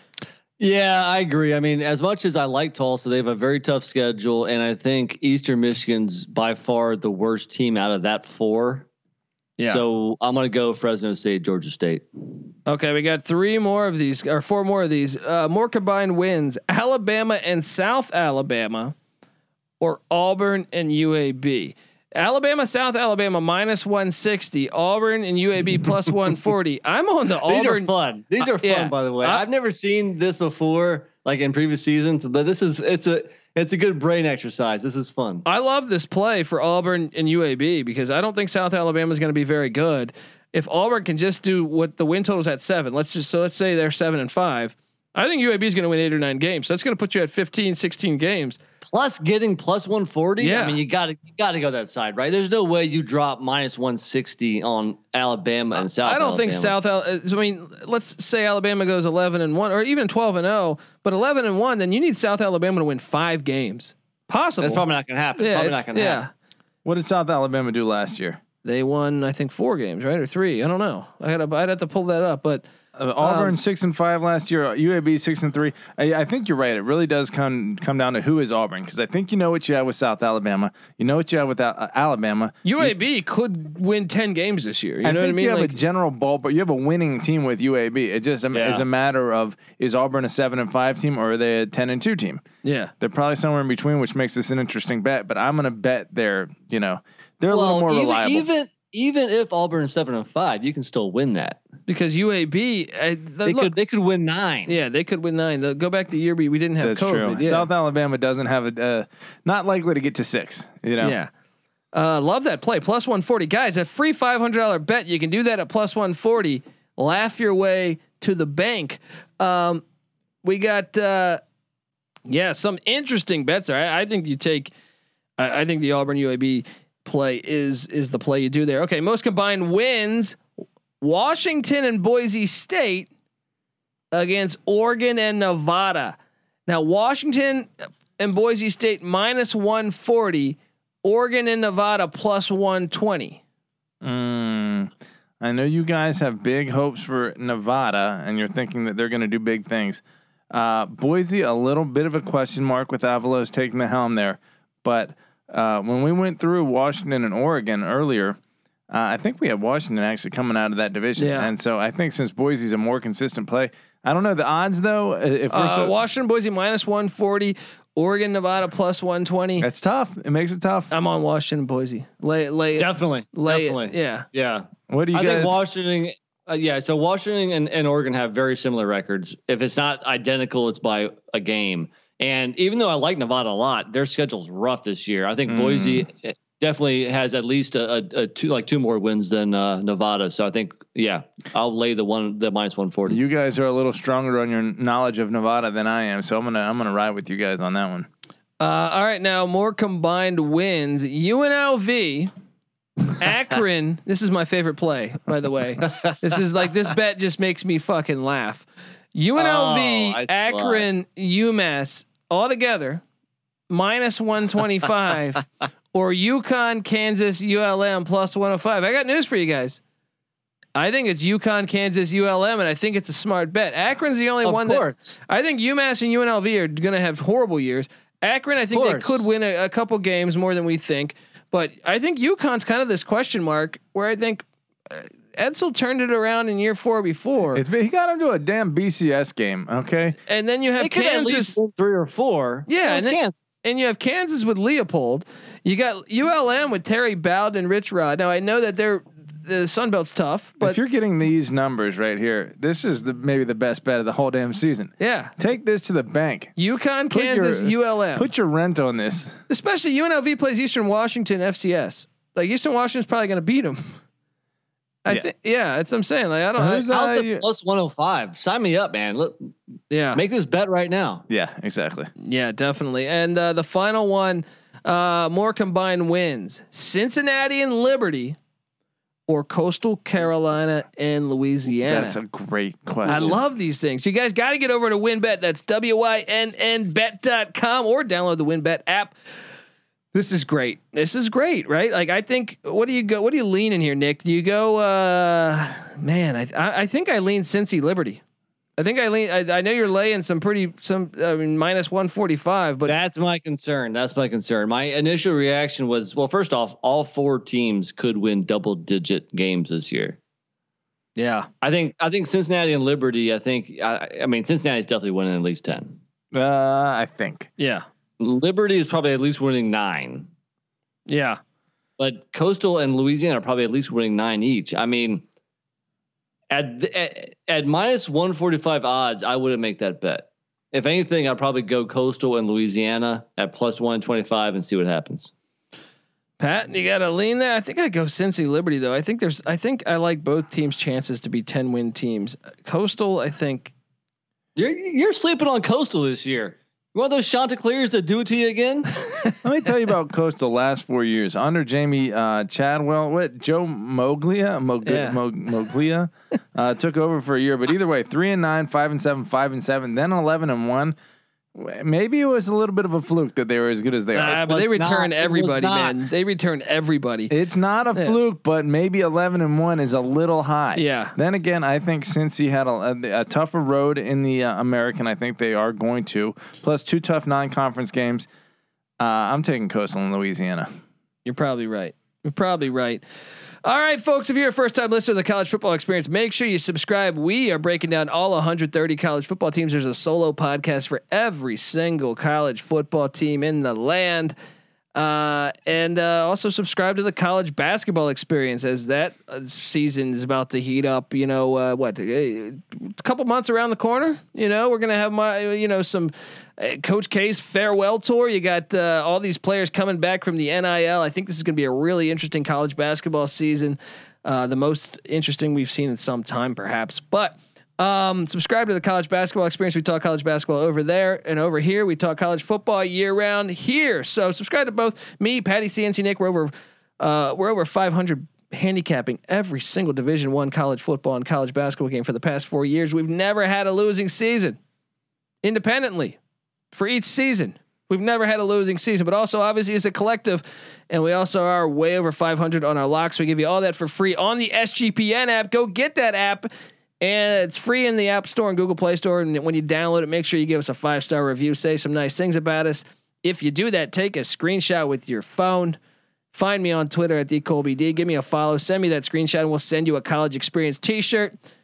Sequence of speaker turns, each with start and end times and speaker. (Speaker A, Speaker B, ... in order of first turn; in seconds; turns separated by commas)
Speaker A: 0.6-8.9, Speaker B: 9.6-9.8, Speaker A: 9.7-12.1, Speaker B: 12.7-18.9, Speaker B: 19.8-27.9, Speaker A: 27.5-35.4, Speaker B: 28.4-29.4, Speaker B: 35.5-48.6, Speaker A: 48.8-56.8, Speaker B: 50.4-50.8, Speaker B: 55.8-64.8, Speaker A: 64.6-66.2, Speaker B: 65.4-66.3, Speaker C: 66.8-68.4, Speaker B: 68.6-72.7, Speaker C: 73.0-82.9, Speaker B: 73.2-73.6, Speaker B: 82.7-85.7, Speaker C: 85.0-92.4, Speaker A: 88.5-88.8, Speaker B: 92.6-92.9, Speaker C: 93.0-98.5, Speaker A: 97.5-101.6, Speaker B: 101.9-103.7, Speaker A: 103.5-104.8, Speaker B: 104.7-107.7, Speaker C: 106.8-111.2, Speaker B: 111.0-111.3, Speaker B: 111.9-119.8, Speaker B: 120.4-121.4, Speaker B: 122.3-124.7, Speaker B: 125.4-130.4, Speaker B: 131.0-133.1, Speaker B: 134.1-143.4, Speaker C: 144.0-158.4, Speaker C: 158.9-165.9, Speaker B: 161.2-161.5, Speaker B: 165.5-169.7, Speaker C: 169.6-170.9, Speaker B: 170.9-174.2, Speaker A: 172.8-193.2, Speaker C: 174.9-175.6, Speaker C: 185.5-186.1, Speaker C: 193.1-198.1, Speaker B: 198.6-202.3, Speaker B: 203.2-213.0, Speaker A: 209.4-210.9, Speaker B: 213.7-219.8, Speaker B: 220.8-237.6, Speaker A: 224.4-225.2, Speaker A: 228.7-229.3, Speaker C: 237.5-240.2, Speaker B: 240.3-241.6, Speaker A: 240.8-243.4, Speaker B: 242.7-250.8, Speaker C: 250.6-256.5, Speaker B: 255.0-255.3, Speaker B: 256.6-258.3, Speaker C: 257.1-259.4, Speaker B: 259.5-263.9, Speaker B: 265.1-266.9, Speaker C: 266.6-267.4, Speaker A: 266.9-269.5, Speaker B: 269.9-270.2, Speaker A: 270.1-271.3, Speaker C: 271.3-272.1, Speaker B: 272.2-278.4, Speaker B: 279.3-282.2, Speaker C: 281.8-283.4, Speaker B: 283.1-289.1, Speaker B: 290.1-298.2, Speaker B: 298.8-302.9, Speaker A: 302.9-310.2, Speaker B: 311.2-311.5, Speaker A: 311.6-316.0, Speaker C: 316.3-317.5, Speaker B: 317.6-317.9, Speaker A: 318.2-320.3, Speaker B: 321.1-321.4, Speaker A: 322.0-325.2, Speaker A: 326.5-335.3, Speaker B: 336.4-343.7, Speaker A: 344.6-349.0, Speaker C: 349.4-360.9, Speaker B: 354.9-355.2, Speaker C: 361.6-364.4, Speaker B: 364.1-367.3, Speaker A: 364.2-366.0, Speaker C: 367.3-378.3, Speaker B: 370.8-371.2, Speaker C: 379.0-380.7, Speaker B: 381.3-383.0, Speaker B: 383.6-394.4, Speaker B: 394.9-434.6, Speaker B: 435.4-436.2, Speaker B: 436.7-446.5, Speaker B: 447.0-455.8, Speaker B: 456.3-461.3